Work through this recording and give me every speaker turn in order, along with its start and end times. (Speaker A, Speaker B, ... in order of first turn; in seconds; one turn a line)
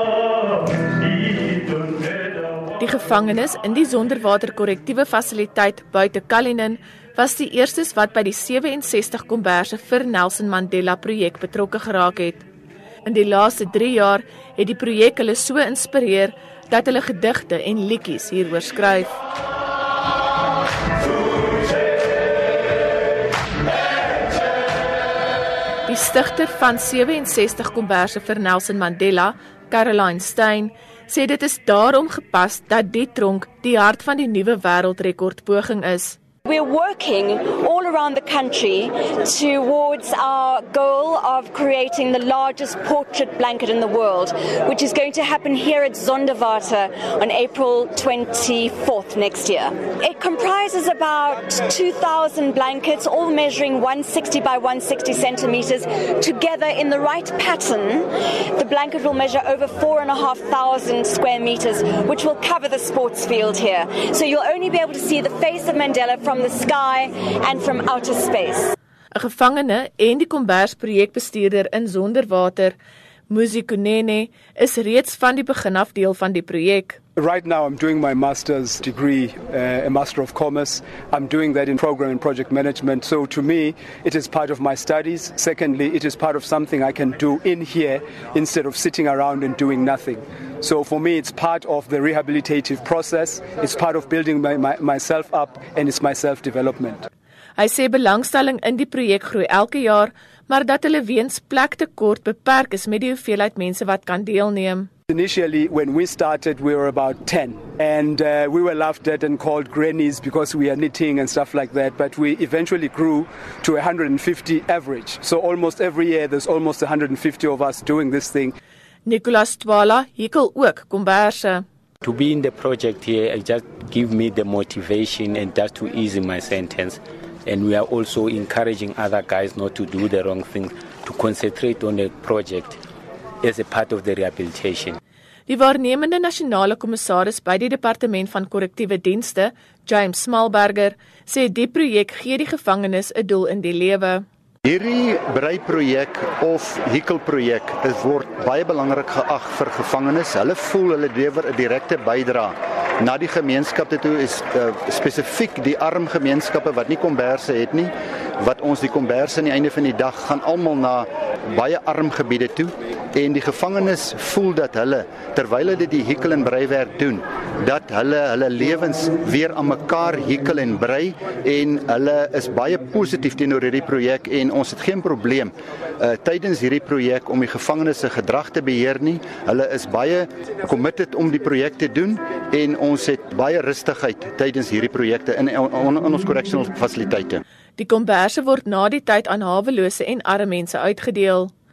Speaker A: 2.8-12.4
Speaker A: 13.0-19.2
Speaker A: 25.9-36.2
Speaker B: 36.4-68.7
Speaker A: 69.1-72.8
Speaker A: 73.3-77.0
Speaker C: 77.2-97.1
Speaker A: 97.6-104.9
Speaker C: 105.1-118.5
Speaker A: 119.0-121.6
Speaker D: 122.0-132.8
Speaker D: 133.4-135.0
Speaker A: 135.5-144.2
Speaker E: 144.6-187.4
Speaker A: 187.8-191.5